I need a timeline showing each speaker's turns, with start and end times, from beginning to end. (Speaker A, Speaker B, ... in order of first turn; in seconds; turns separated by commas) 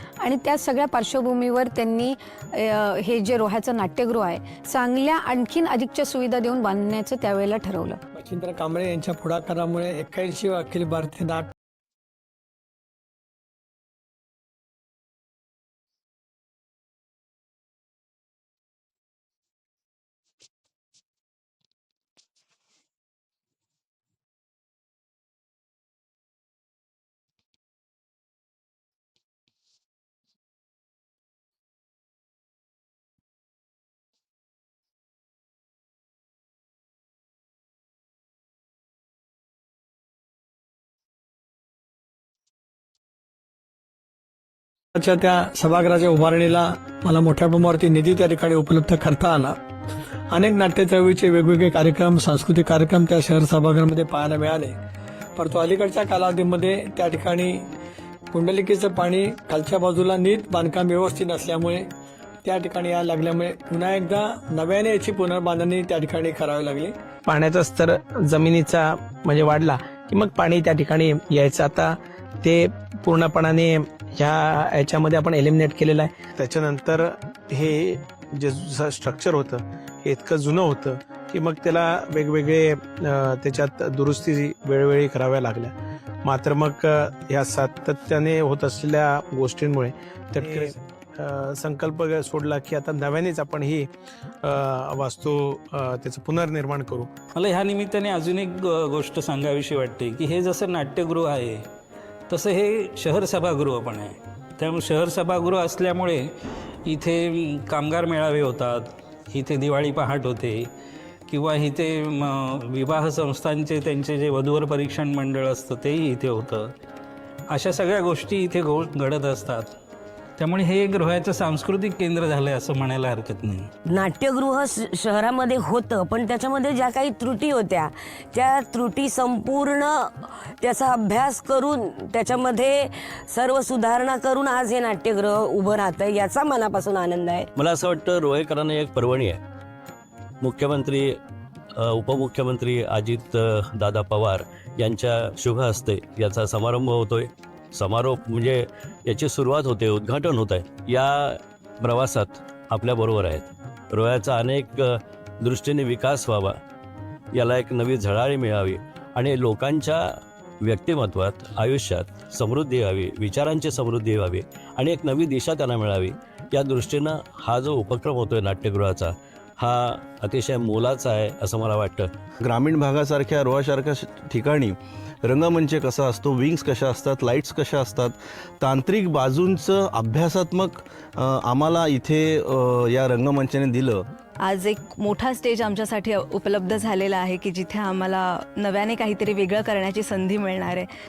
Speaker A: 0.2-8.0, Speaker B: 8.1-11.5, Speaker B: 45.0-49.6, Speaker B: 50.3-54.8, Speaker B: 55.4-57.6, Speaker B: 58.3-61.9, Speaker B: 62.4-66.9, Speaker C: 67.2-93.9, Speaker C: 94.4-97.1, Speaker D: 97.4-101.6, Speaker D: 102.3-106.2, Speaker D: 106.9-110.6, Speaker D: 111.3-116.7, Speaker D: 117.5-119.7, Speaker D: 120.4-123.7, Speaker E: 123.8-137.5, Speaker F: 137.5-139.4, Speaker F: 140.4-141.2, Speaker F: 141.8-154.8, Speaker F: 155.4-156.6, Speaker F: 157.3-160.0, Speaker F: 160.6-172.1, Speaker G: 172.4-184.0, Speaker H: 184.4-190.9